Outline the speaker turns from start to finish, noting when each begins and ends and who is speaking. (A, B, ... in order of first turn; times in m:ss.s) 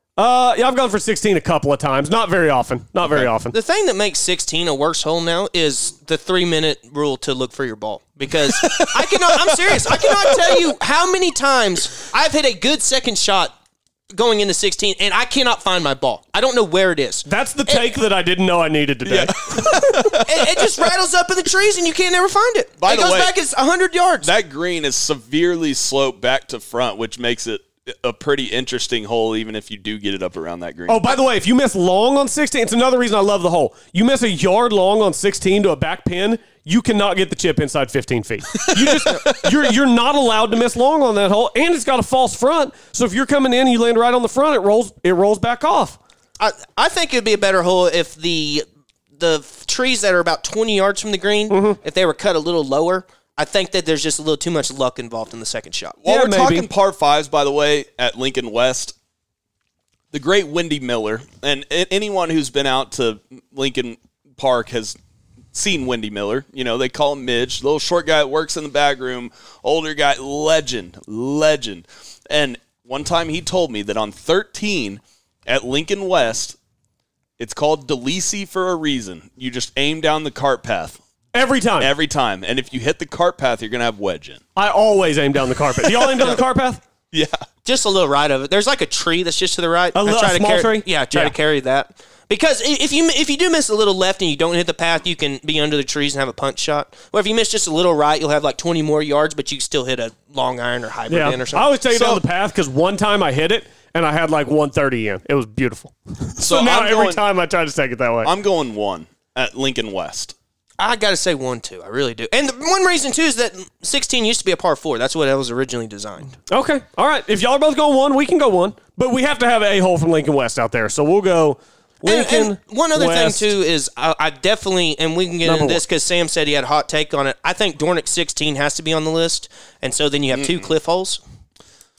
0:00.2-0:03.5 A
0:03.5-0:13.5 B
0:08.5-0:10.6 C
0:14.1-0:17.9 B
0:17.2-0:20.1 A
0:19.0-0:20.7 C
0:20.1-0:24.3 B
0:22.8-0:23.3 C
0:24.2-0:31.2 C
0:30.9-0:46.0 A
0:38.7-0:39.5 C
0:46.4-0:48.6 B
0:49.2-0:56.0 B
0:51.5-0:51.8 A
0:56.0-0:58.9 C
0:56.0-0:56.7 A
1:00.1-1:05.0 C
1:05.5-1:16.6 C
1:17.4-1:21.0 C
1:21.3-1:21.9 A
1:21.8-1:24.4 C
1:24.6-1:26.8 A
1:25.8-1:26.4 C
1:27.1-1:27.4 C
1:27.6-1:41.7 B
1:29.9-1:31.3 A
1:41.1-1:48.3 A
1:41.9-1:42.2 C
1:46.4-1:47.2 C
1:48.2-1:50.3 C
1:50.8-1:56.4 B
1:56.5-2:03.5 A
2:02.0-2:11.2 B
2:05.4-2:05.8 A
2:10.3-2:10.7 C